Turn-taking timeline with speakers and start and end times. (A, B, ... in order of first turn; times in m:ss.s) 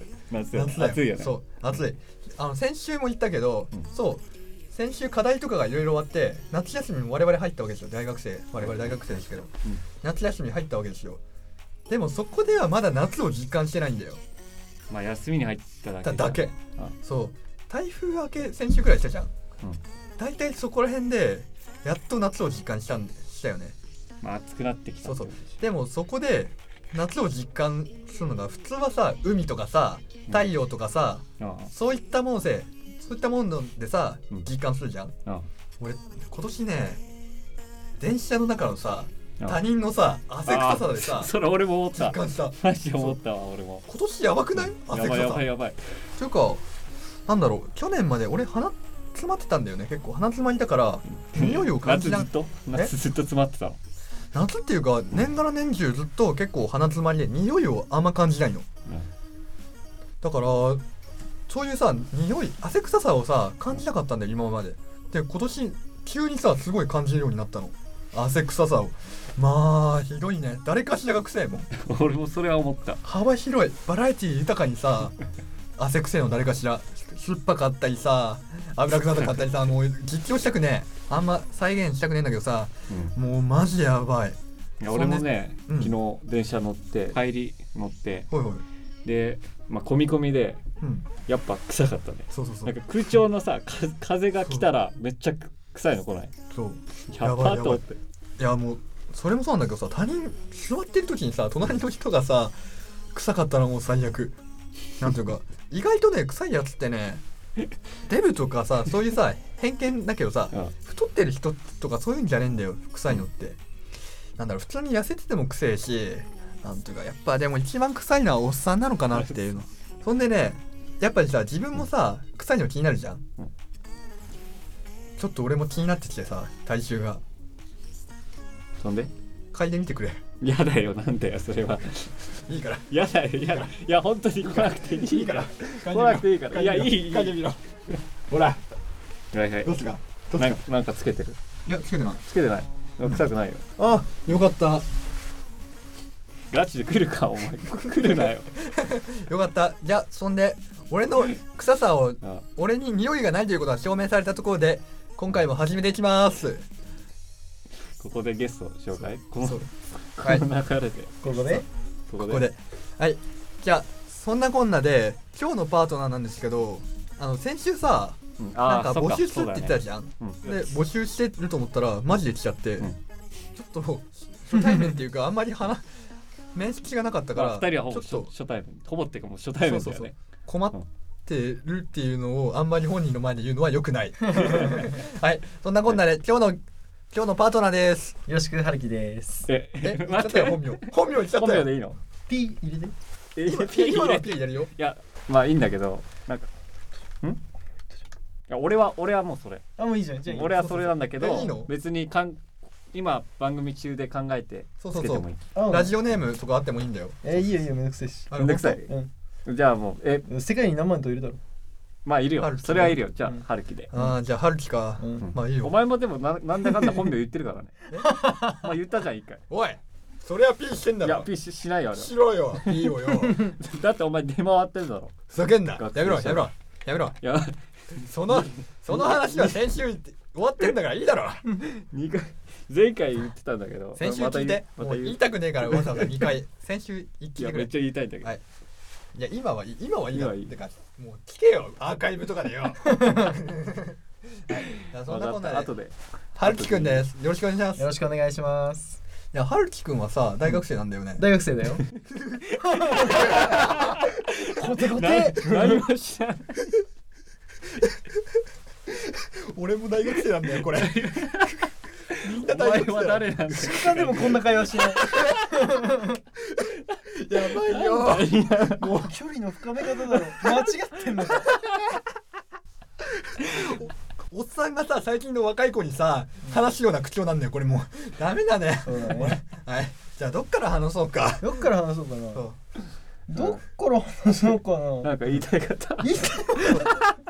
0:00.3-0:01.4 A
0:00.5-0:09.5 B
0:08.6-0:09.8 A
0:10.0-0:11.2 B
0:11.9-0:14.2 B
0:14.9-0:16.9 A
0:16.0-0:19.3 B
0:20.2-0:23.8 B
0:24.2-0:25.6 A
0:25.0-0:35.1 B
0:31.4-0:31.7 A
0:35.8-0:37.0 B
0:38.0-0:41.3 B
0:40.4-0:43.8 A
0:41.9-0:43.2 B
0:43.8-0:45.4 B
0:44.6-0:45.8 A
0:46.2-0:46.6 B
0:47.3-0:52.3 B
0:51.1-0:53.8 A
0:54.3-0:58.7 B
1:00.2-1:00.8 B
1:01.5-1:11.7 B
1:11.7-1:13.0 A
1:13.0-1:15.1 B
1:15.8-1:24.4 B
1:19.2-1:19.6 A
1:24.8-1:28.3 A
1:24.9-1:25.9 B
1:28.3-1:28.6 B
1:29.0-1:30.6 A
1:30.8-1:31.1 B
1:31.2-1:36.3 A
1:32.3-1:32.7 B
1:36.5-1:37.8 B
1:37.1-1:38.0 A
1:38.4-1:42.6 B
1:43.1-1:44.4 B
1:45.0-1:47.2 B
1:48.0-1:53.6 B
1:54.4-2:03.2 B
2:05.2-2:07.2 B
2:08.8-2:09.1 A
2:09.5-2:10.2 B
2:10.4-2:12.1 A
2:12.5-2:12.9 B
2:12.9-2:18.0 A
2:14.8-2:17.6 B
2:18.3-2:18.6 B
2:19.3-2:19.7 A
2:19.6-2:20.6 B
2:20.4-2:21.4 A
2:21.6-2:22.2 B
2:22.2-2:23.6 A
2:23.8-2:24.8 B
2:26.5-2:28.5 A
2:28.6-2:36.6 B
2:38.0-2:42.4 A
2:39.4-2:39.7 B
2:41.2-2:41.6 C
2:42.2-2:52.9 B
2:48.4-2:50.6 A
2:53.5-2:55.9 B
2:56.5-2:58.3 B
2:57.3-3:00.1 A
2:59.6-3:06.6 B
3:04.4-3:04.7 C
3:07.1-3:08.2 B
3:08.3-3:09.5 C
3:09.5-3:12.0 A
3:09.8-3:11.7 B
3:12.3-3:12.9 C
3:13.4-3:16.5 A
3:13.4-3:14.7 B
3:18.5-3:19.6 A
3:19.8-3:20.9 C
3:20.2-3:25.4 A
3:20.5-3:21.7 B
3:24.8-3:27.4 B
3:25.5-3:25.9 C
3:27.2-3:28.3 C
3:28.3-3:28.8 B
3:28.4-3:28.9 A
3:29.4-3:30.2 A
3:30.2-3:31.4 C
3:32.0-3:33.9 A
3:32.4-3:33.0 B
3:33.9-3:35.8 B
3:35.0-3:35.3 C
3:35.2-3:39.4 A
3:38.0-3:38.7 C
3:39.5-3:41.3 B
3:41.0-3:45.2 A
3:41.9-3:43.5 B
3:45.3-3:47.2 B
3:45.7-3:46.5 A
3:47.2-3:49.6 A
3:48.0-3:51.5 B
3:51.6-3:56.3 A
3:54.0-3:57.7 B
3:57.4-3:58.4 A
3:59.1-4:03.9 B
4:00.1-4:00.5 A
4:02.9-4:03.4 C
4:04.5-4:05.7 B
4:04.7-4:07.0 A
4:06.4-4:07.8 B
4:07.8-4:09.0 C
4:09.3-4:11.2 B
4:11.2-4:11.8 C
4:12.6-4:13.8 C
4:13.1-4:16.7 A
4:13.1-4:13.9 B
4:14.5-4:15.9 C
4:17.8-4:18.2 B
4:18.9-4:21.5 B
4:20.6-4:21.6 A
4:22.2-4:25.4 A
4:22.2-4:23.8 B
4:22.2-4:26.2 C
4:26.5-4:28.5 B
4:27.5-4:28.9 A
4:28.6-4:31.6 C
4:33.0-4:41.6 B
4:38.8-4:39.4 C
4:41.4-4:42.4 C
4:42.3-4:42.6 B
4:43.3-4:45.1 C
4:43.3-4:43.6 A
4:45.0-4:47.0 A
4:46.0-4:47.1 C